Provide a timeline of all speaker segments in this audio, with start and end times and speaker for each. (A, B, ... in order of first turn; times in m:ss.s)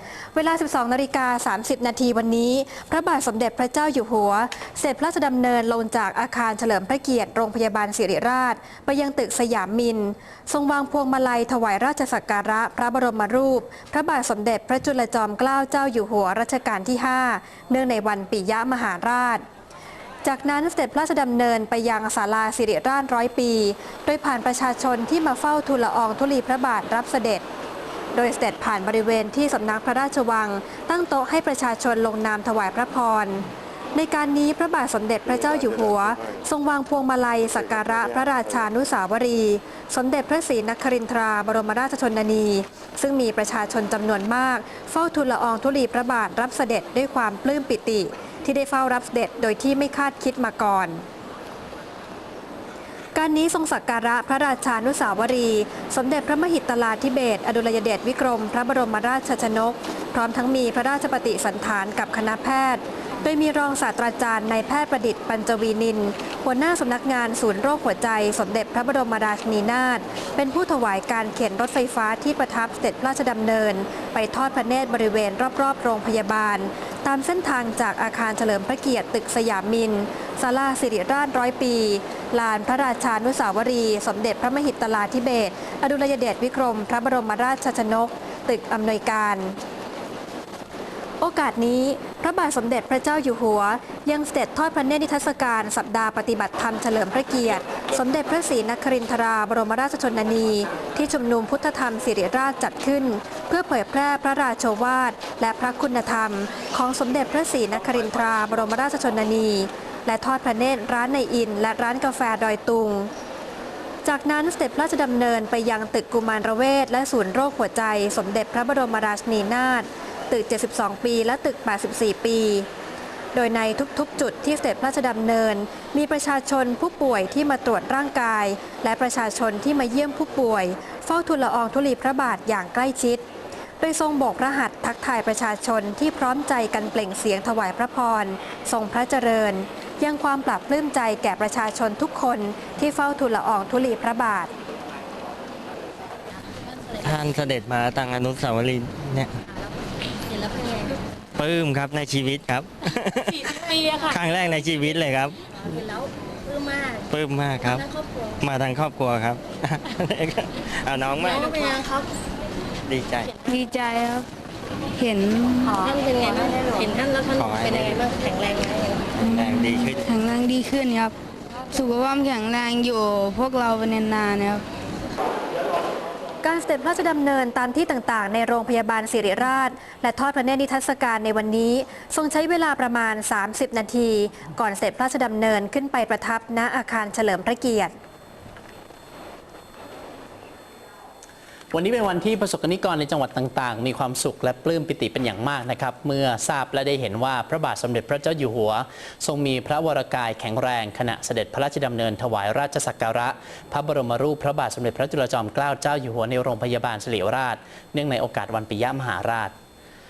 0:00.3-0:19.4 A
0:20.2-0:27.4 A
0:28.1-0:51.0 A
0:53.1-1:29.6 A
1:31.2-1:53.1 A
1:54.0-2:02.7 A
2:03.3-2:13.2 A
2:13.8-2:24.5 A
2:27.0-2:29.4 B
2:30.2-2:31.0 C
2:31.4-2:35.4 B
2:33.8-2:34.1 C
2:35.7-2:37.0 C
2:37.1-2:37.9 B
2:37.6-2:38.0 C
2:38.4-2:41.8 B
2:41.2-2:42.0 C
2:42.9-2:43.3 B
2:43.4-2:44.2 D
2:45.0-2:45.9 D
2:45.7-2:49.0 C
2:47.4-2:48.0 B
2:49.2-2:51.1 D
2:49.3-2:50.0 B
2:51.7-2:54.6 D
2:56.4-3:07.9 A
3:11.7-3:29.5 E